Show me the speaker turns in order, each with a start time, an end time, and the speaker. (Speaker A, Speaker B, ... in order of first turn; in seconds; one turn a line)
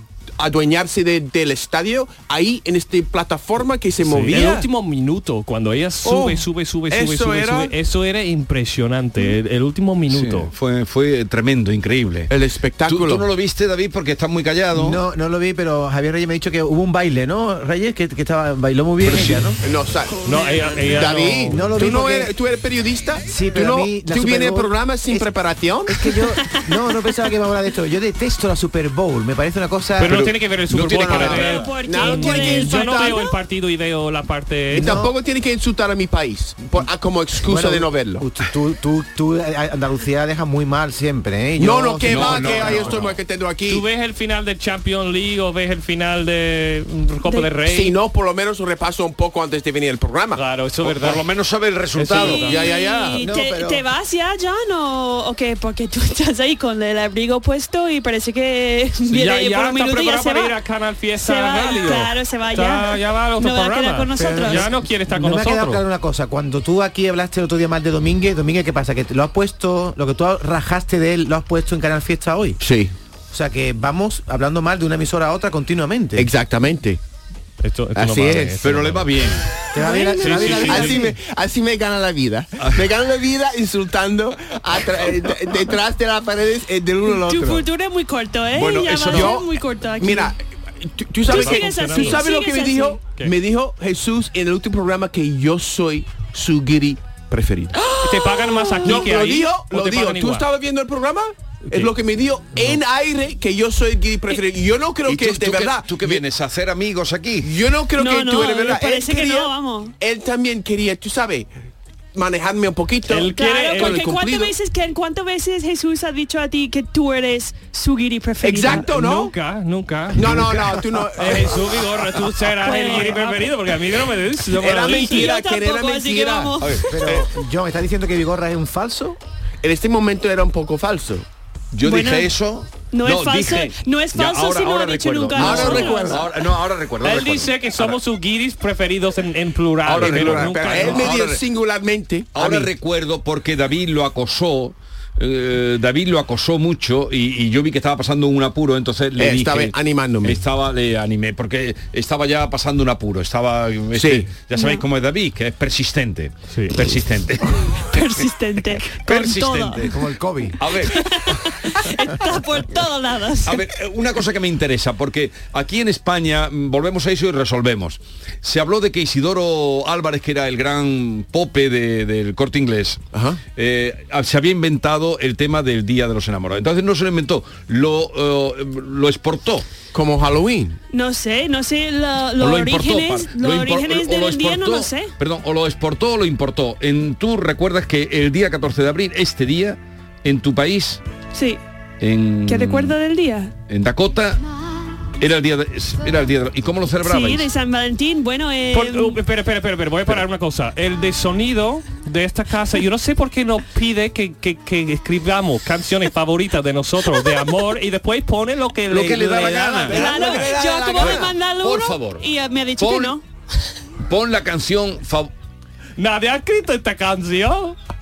Speaker A: 0.4-4.7
Speaker B: 4.0-10.5
Speaker A: 6.0-7.7
Speaker C: 10.1-12.3
Speaker A: 12.3-13.3
Speaker C: 12.8-15.0
Speaker D: 14.7-19.6
Speaker A: 19.1-26.1
Speaker B: 20.2-21.9
Speaker D: 21.5-22.3
Speaker D: 23.2-25.3
Speaker D: 25.9-30.2
Speaker B: 30.0-35.0
Speaker C: 30.0-31.7
Speaker A: 31.1-33.2
Speaker E: 31.2-33.3
Speaker D: 34.7-35.1
Speaker A: 34.7-38.2
Speaker D: 37.4-42.8
Speaker A: 41.6-43.8
Speaker C: 42.0-43.1
Speaker B: 42.5-42.9
Speaker B: 43.7-47.9
Speaker A: 47.6-50.4
Speaker B: 50.4-51.2
Speaker C: 50.8-52.6
Speaker B: 51.9-52.6
Speaker E: 52.2-60.6
Speaker A: 52.3-53.2
Speaker D: 53.2-53.8
Speaker B: 59.1-65.8
Speaker E: 61.1-64.7
Speaker D: 64.2-72.6
Speaker A: 72.6-72.9
Speaker D: 73.3-76.3
Speaker A: 76.2-77.0
Speaker B: 77.6-79.1
Speaker A: 78.0-78.6
Speaker C: 78.6-79.5
Speaker D: 79.7-81.2
Speaker A: 79.8-87.6
Speaker E: 79.8-80.4
Speaker B: 80.2-81.0
Speaker C: 82.6-82.9
Speaker E: 87.1-90.3
Speaker C: 88.5-89.4
Speaker A: 89.1-89.5
Speaker A: 90.0-97.9
Speaker E: 91.3-93.0
Speaker B: 91.3-92.2
Speaker E: 97.8-99.1
Speaker B: 98.0-100.5
Speaker A: 98.8-106.2
Speaker C: 105.1-107.5
Speaker A: 107.4-111.5
Speaker E: 108.0-109.9
Speaker A: 112.1-114.5
Speaker B: 113.1-114.0
Speaker E: 113.3-118.9
Speaker A: 118.4-119.3
Speaker B: 118.7-120.5
Speaker A: 120.1-121.6
Speaker B: 121.2-125.3
Speaker E: 122.6-123.5
Speaker A: 124.6-126.6
Speaker E: 124.8-126.9
Speaker C: 126.6-126.9
Speaker D: 126.9-129.2
Speaker A: 129.6-131.2
Speaker C: 131.7-137.9
Speaker E: 131.8-132.3
Speaker E: 132.9-136.2
Speaker A: 135.3-136.4
Speaker B: 137.0-141.1
Speaker A: 139.8-142.7
Speaker C: 139.9-141.4
Speaker C: 142.3-157.8
Speaker A: 149.2-150.4
Speaker A: 153.9-154.3
Speaker E: 154.5-154.8
Speaker B: 156.5-156.8
Speaker E: 157.8-159.9
Speaker C: 158.8-159.9
Speaker D: 159.8-160.6
Speaker C: 160.6-161.0
Speaker E: 160.8-163.6
Speaker C: 163.4-173.0
Speaker A: 173.1-173.4
Speaker C: 173.6-179.7
Speaker A: 179.9-180.8
Speaker E: 180.9-185.1
Speaker C: 182.4-191.0
Speaker E: 191.3-191.6
Speaker C: 192.0-192.9
Speaker E: 192.5-193.5
Speaker C: 193.7-194.4
Speaker C: 195.2-197.5
Speaker E: 197.0-199.2
Speaker B: 198.7-210.5
Speaker C: 208.9-210.2
Speaker A: 209.5-211.3
Speaker E: 209.9-213.2
Speaker C: 211.0-212.2
Speaker C: 212.8-213.2
Speaker C: 214.1-215.3
Speaker B: 216.0-217.8